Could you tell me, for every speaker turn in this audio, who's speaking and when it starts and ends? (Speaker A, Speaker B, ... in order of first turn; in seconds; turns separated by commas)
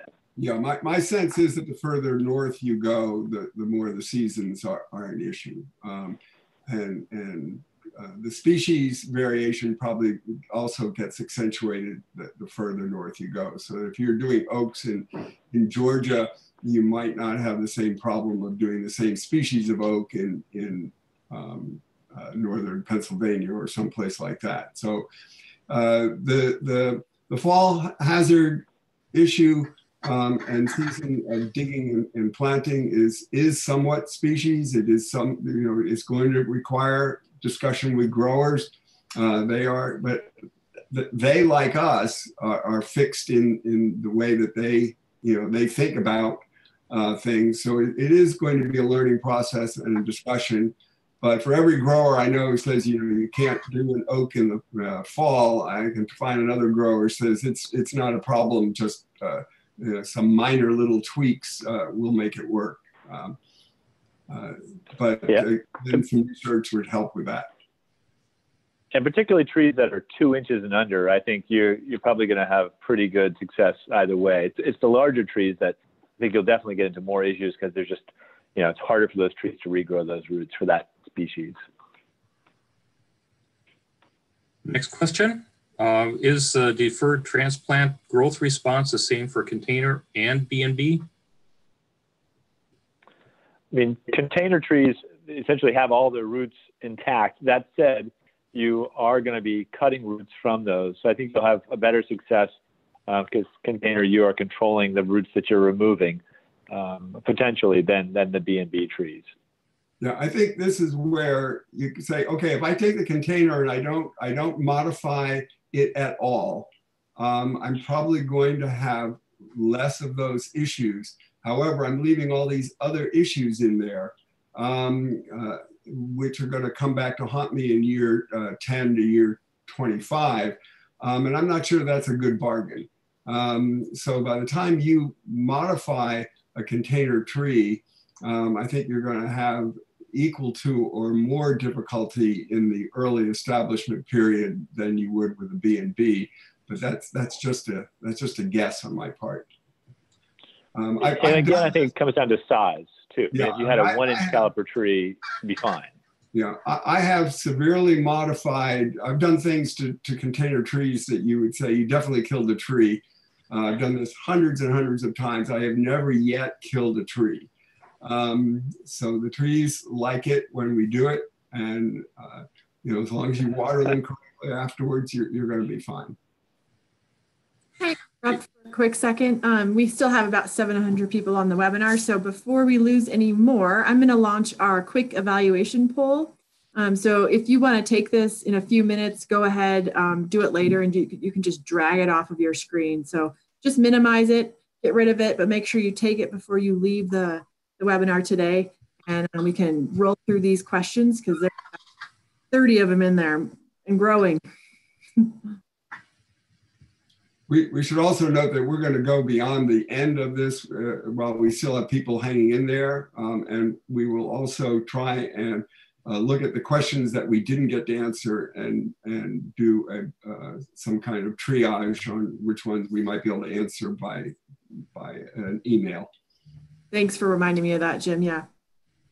Speaker A: 0.4-25.1, Speaker A: 25.7-40.3, Speaker A: 40.9-63.4, Speaker A: 64.3-67.5, Speaker B: 68.9-81.6, Speaker C: 84.6-91.0, Speaker B: 93.7-102.5, Speaker B: 103.1-109.3, Speaker A: 110.0-149.5, Speaker A: 150.7-151.7, Speaker B: 151.0-155.9, Speaker A: 153.3-154.4, Speaker A: 156.3-167.5, Speaker A: 168.0-176.2, Speaker D: 177.8-201.6, Speaker D: 202.5-204.4, Speaker A: 207.5-224.4, Speaker A: 224.9-226.1, Speaker D: 226.9-228.4